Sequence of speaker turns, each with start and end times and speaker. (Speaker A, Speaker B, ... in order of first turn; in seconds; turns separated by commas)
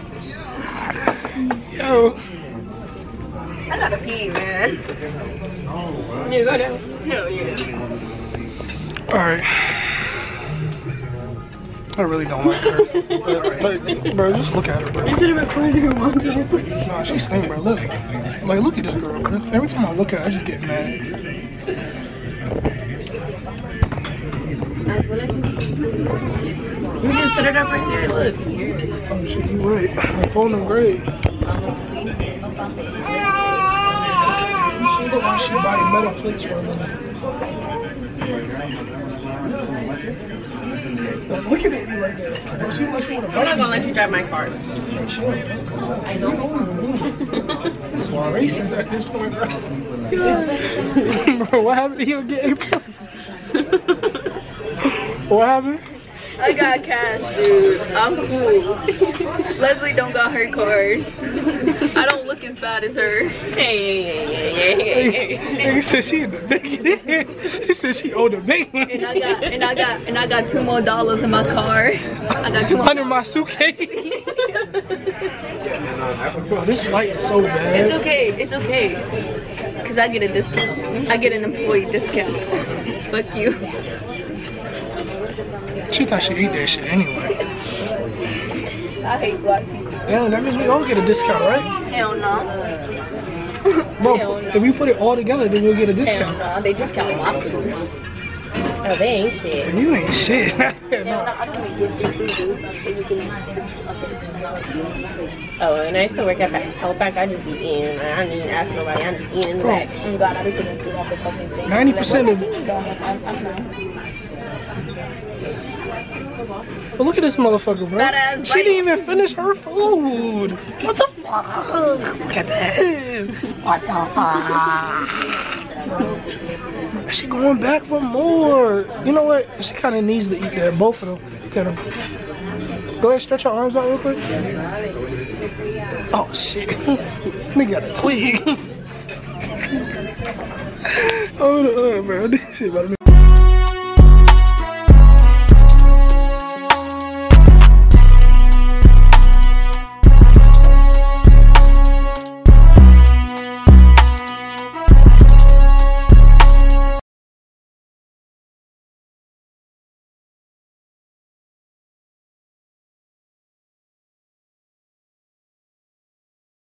Speaker A: 1.6-2.2, Speaker B: 3.7-4.8, Speaker C: 6.2-6.8, Speaker B: 7.0-7.6, Speaker A: 9.1-9.9, Speaker A: 11.9-15.2, Speaker C: 12.6-14.1, Speaker C: 15.0-16.7, Speaker A: 16.8-21.0, Speaker C: 27.0-28.4, Speaker A: 29.1-31.1, Speaker A: 34.8-36.9, Speaker A: 41.2-44.0, Speaker C: 43.3-44.7, Speaker A: 44.8-47.1, Speaker A: 47.9-49.6, Speaker C: 50.1-51.2, Speaker A: 50.2-52.9, Speaker C: 53.6-53.8, Speaker A: 55.3-55.8, Speaker B: 56.4-58.8, Speaker B: 59.5-61.1, Speaker B: 61.8-63.4, Speaker C: 63.5-65.7, Speaker A: 64.8-69.1, Speaker B: 68.9-73.2, Speaker A: 72.6-74.3, Speaker A: 76.4-78.0, Speaker B: 77.7-79.0, Speaker B: 79.8-82.5, Speaker B: 83.1-83.6, Speaker A: 85.9-87.4, Speaker B: 89.0-89.9, Speaker A: 90.0-91.7, Speaker B: 91.9-92.5, Speaker B: 93.7-94.8, Speaker A: 94.0-96.4, Speaker B: 96.0-97.8, Speaker C: 98.8-99.7, Speaker A: 99.6-101.3, Speaker B: 101.0-105.0, Speaker C: 105.6-109.9, Speaker A: 109.6-109.8, Speaker B: 110.0-113.7, Speaker A: 111.7-112.5, Speaker A: 117.0-125.1, Speaker B: 117.9-118.8, Speaker A: 127.1-131.8, Speaker A: 133.0-134.2, Speaker A: 136.1-137.0, Speaker A: 137.5-138.7, Speaker A: 140.9-143.0